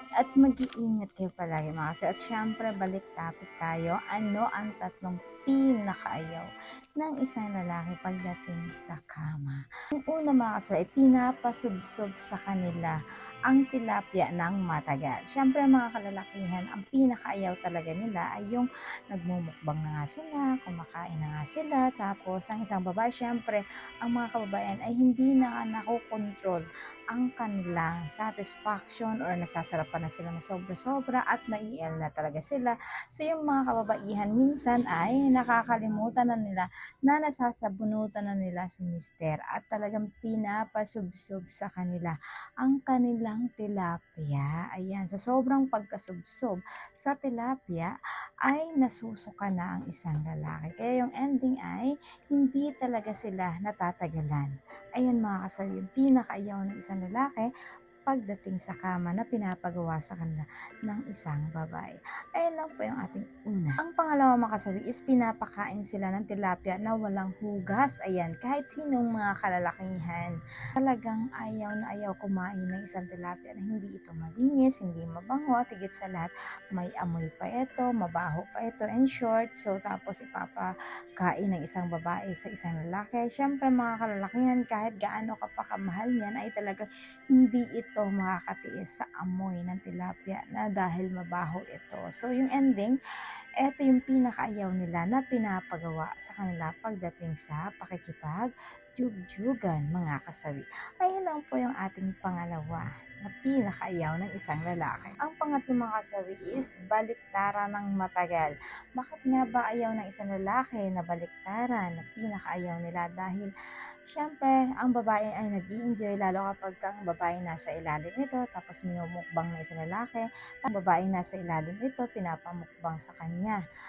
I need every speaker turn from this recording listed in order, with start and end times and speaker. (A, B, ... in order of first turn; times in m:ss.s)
0:00.2-0:06.4 A
0:07.0-0:13.0 A
0:13.5-0:47.9 A
0:48.4-0:57.5 A
0:58.0-1:33.0 A
1:33.6-1:53.5 A
1:54.1-2:03.6 A